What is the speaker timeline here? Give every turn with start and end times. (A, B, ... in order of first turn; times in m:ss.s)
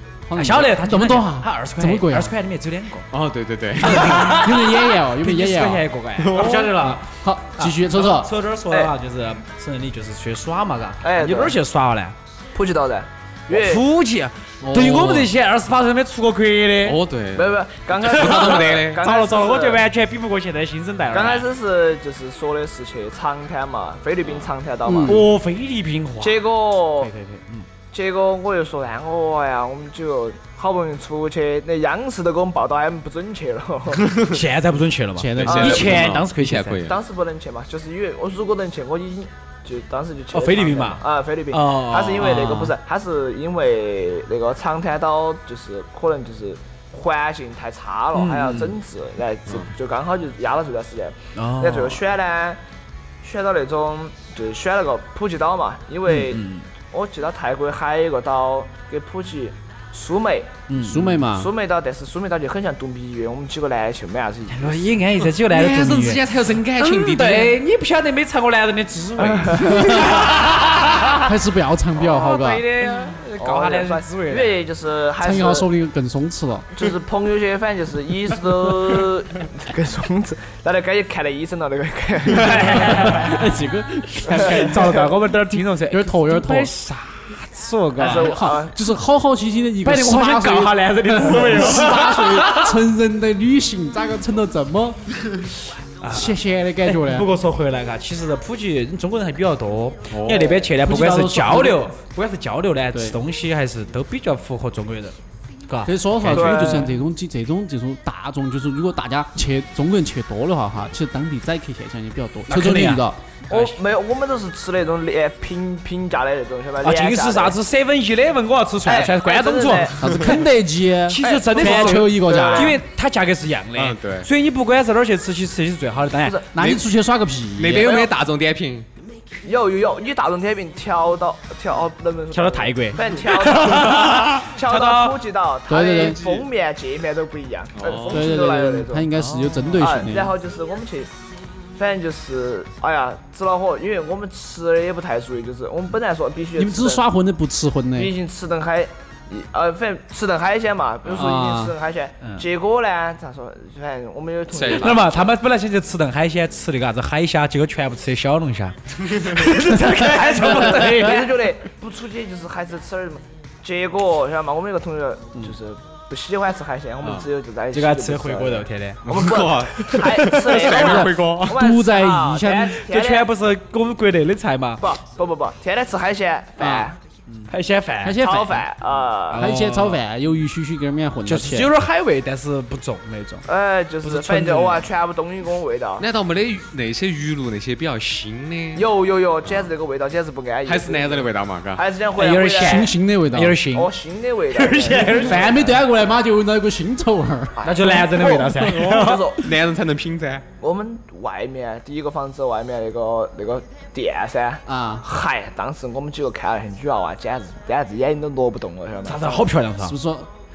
0:00.3-0:02.3 A
0:00.4-0:03.1 B
0:03.1-0:04.4 C
0:03.8-0:05.8 A
0:03.8-0:12.2 B
0:06.2-0:07.0 C
0:07.1-0:08.3 A
0:11.0-0:11.6 D
0:12.5-0:13.8 D
0:13.5-0:17.0 B
0:14.6-0:15.3 A
0:16.8-0:19.0 C
0:17.3-0:19.8 D
0:18.0-0:21.5 B
0:21.1-0:25.3 D
0:24.8-0:25.2 A
0:25.1-0:27.7 B
0:26.2-0:27.1 D
0:27.9-0:34.1 D
0:34.0-0:34.4 C
0:34.3-0:36.8 B
0:35.2-0:36.1 A
0:35.3-0:37.0 C
0:36.9-0:52.6 D
0:40.3-0:42.8 B
0:48.1-0:48.8 B
0:51.4-0:52.0 B
0:53.2-1:00.5 D
0:56.1-0:56.7 B
1:00.7-1:01.2 B
1:00.8-1:01.5 A
1:01.2-1:04.9 D
1:04.5-1:11.3 B
1:05.3-1:07.6 C
1:09.2-1:09.5 C
1:09.6-1:10.4 A
1:11.2-1:12.6 A
1:12.0-1:14.6 B
1:13.4-1:15.7 D
1:15.2-1:16.7 A
1:16.7-1:23.2 D
1:22.3-1:23.5 B
1:22.8-1:25.0 A
1:24.1-1:28.4 B
1:24.3-1:24.9 D
1:25.9-1:26.7 A
1:28.0-1:28.8 D
1:28.0-1:35.0 A
1:29.8-1:32.8 B
1:36.0-1:45.2 B
1:36.0-1:37.3 A
1:40.1-1:40.6 C
1:40.8-1:41.9 A
1:42.9-1:43.2 A
1:45.7-1:46.9 B
1:45.9-1:53.2 A
1:46.3-1:46.9 D
1:52.5-1:53.8 B
1:53.5-1:57.6 D
1:56.8-1:59.9 B
1:58.8-2:00.3 D
2:00.0-2:02.8 A
2:00.0-2:00.4 C
2:01.1-2:06.4 B
2:01.2-2:02.8 D
2:03.8-2:04.3 C
2:06.2-2:06.5 D
2:06.5-2:08.0 A
2:06.6-2:06.9 C
2:07.6-2:08.9 C
2:07.7-2:08.1 D
2:09.4-2:19.1 D
2:12.3-2:15.2 B
2:15.7-2:16.2 A
2:17.8-2:18.4 C
2:18.1-2:20.3 A
2:19.1-2:19.8 B
2:19.8-2:21.1 D
2:21.8-2:27.0 D
2:26.6-2:28.1 A
2:28.0-2:35.1 D
2:31.1-2:31.8 A
2:34.5-2:35.1 C
2:34.8-2:41.4 B
2:40.0-2:53.3 D
2:47.0-2:47.3 C
2:47.7-2:49.0 B
2:49.1-2:51.6 C
2:50.7-2:52.8 A
2:52.8-2:54.9 B
2:54.8-2:57.0 D
2:56.6-2:56.9 A
2:57.5-2:58.2 B
2:58.0-2:58.7 A
2:58.2-2:59.5 D
2:59.3-3:00.0 B
2:59.3-3:01.7 A
3:01.3-3:03.5 B
3:03.5-3:06.1 D
3:04.0-3:04.9 B
3:06.0-3:08.8 C
3:08.8-3:12.9 D
3:10.7-3:11.8 C
3:12.2-3:13.9 B
3:12.6-3:13.6 A
3:13.7-3:15.7 D
3:14.5-3:15.7 B
3:15.1-3:17.6 A
3:17.6-3:19.5 D
3:17.6-3:19.3 B
3:19.3-3:20.5 C
3:20.6-3:29.5 D
3:24.7-3:25.1 A
3:29.0-3:30.0 B
3:29.8-3:30.3 A